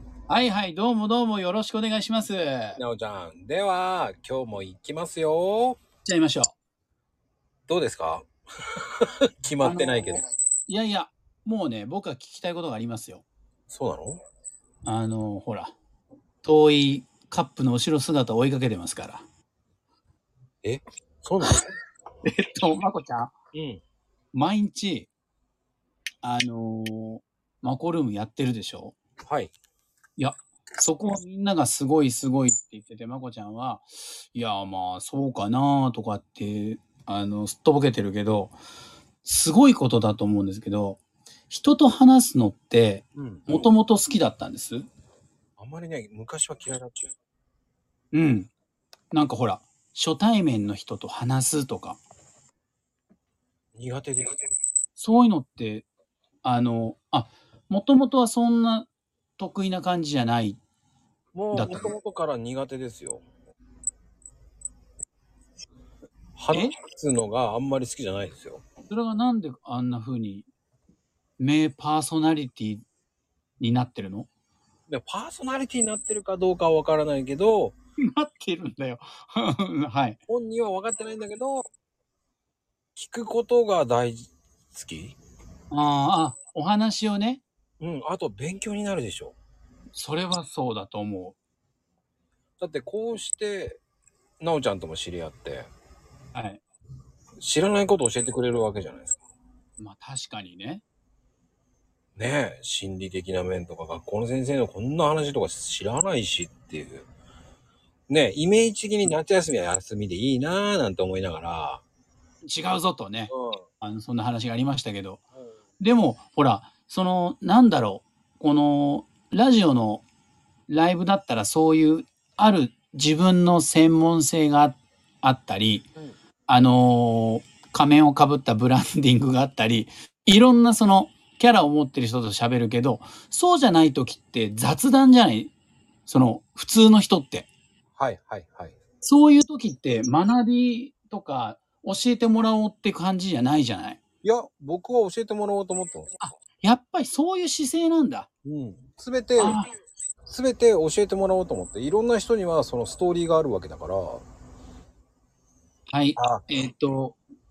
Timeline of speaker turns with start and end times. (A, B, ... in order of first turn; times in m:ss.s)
0:00.3-0:02.8 A
0:02.8-0:05.8 B
0:06.0-0:06.5 A
0:07.7-0:08.3 B
0:09.0-0:10.2 B
0:09.6-0:13.2 A
0:13.7-0:14.2 B
0:14.8-0:15.7 A
0:16.4-0:19.2 A
0:20.6-0:21.6 B
0:22.2-0:23.3 A
0:23.5-0:23.8 B
0:24.3-0:25.1 A
0:26.2-0:29.0 A
0:29.3-0:29.5 B
0:30.2-0:38.5 A
0:39.2-0:44.8 A
0:43.2-0:43.5 B
0:45.6-0:47.1 B
0:48.1-0:48.5 A
0:49.1-0:52.0 A
0:53.7-0:54.4 B
0:55.0-0:55.8 A
0:56.4-1:00.6 A
1:01.3-1:03.2 B
1:01.5-1:01.9 A
1:06.4-1:08.6 B
1:08.9-1:10.5 A
1:11.4-1:12.8 A
1:13.6-1:14.3 A
1:14.9-1:17.8 B
1:18.0-1:20.2 A
1:20.3-1:21.6 B
1:23.0-1:25.2 B
1:25.7-1:27.4 A
1:27.8-1:29.3 B
1:29.9-1:31.4 A
1:32.6-1:33.8 B
1:34.4-1:35.7 B
1:36.3-1:36.6 A
1:37.4-1:39.2 B
1:39.8-1:40.8 A
1:42.2-1:47.0 B
1:48.1-1:51.8 B
1:52.4-1:55.2 A
1:53.3-1:53.6 B
1:55.8-2:00.0 A
2:00.7-2:05.8 A
2:06.5-2:15.5 A
2:16.0-2:17.5 A
2:18.0-2:18.7 B
2:19.0-2:24.0 A
2:24.2-2:26.1 B
2:26.2-2:28.3 A
2:28.4-2:29.6 B
2:29.4-2:29.7 A
2:30.2-2:34.2 B
2:35.9-2:37.2 A
2:36.2-2:36.4 B